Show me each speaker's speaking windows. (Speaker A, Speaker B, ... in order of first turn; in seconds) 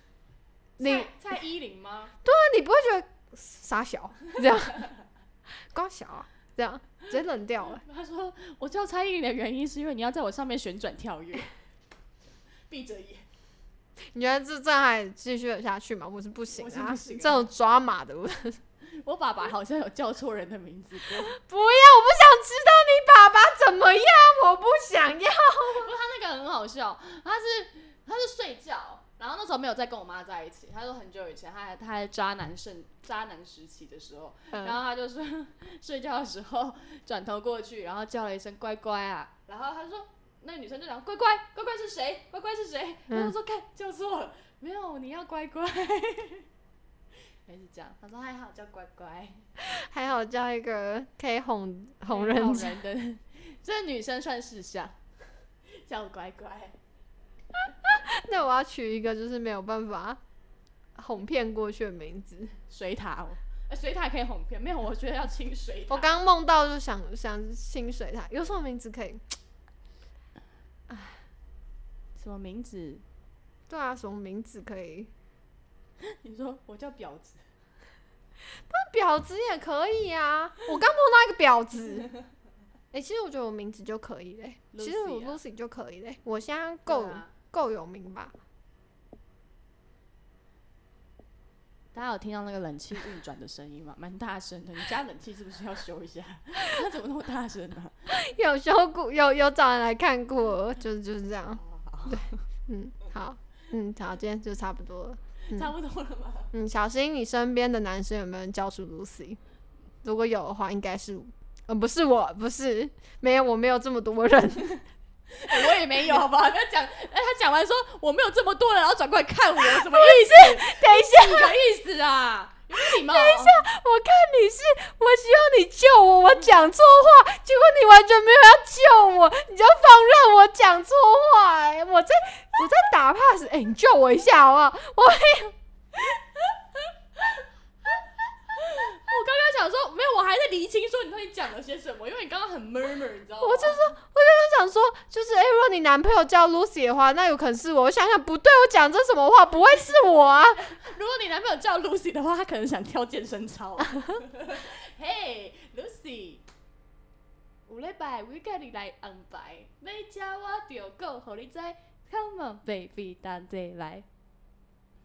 Speaker A: 0.8-2.1, 7.7-11.5, 12.7-13.3, 16.5-17.5, 18.9-21.4, 25.7-46.5, 47.5-49.5, 52.1-55.0, 55.7-56.8, 62.7-66.2, 72.2-73.0, 76.0-77.4, 84.7-85.4, 86.9-87.3, 91.9-98.1, 101.5-102.4, 105.4-106.5, 115.3-123.6, 138.6-143.9, 150.6-156.4, 157.7-164.1
Speaker B: 0.8-1.1, 2.2-4.8, 5.7-7.8, 14.1-18.6, 21.2-25.9, 34.5-34.8, 43.1-43.4, 49.6-52.8, 57.8-60.2, 61.0-62.5, 65.9-69.2, 70.9-71.2, 73.7-75.1, 78.7-82.1, 82.9-88.3, 98.1-105.7, 106.5-109.4, 110.0-114.8, 119.6-121.5, 122.8-135.6, 143.4-150.7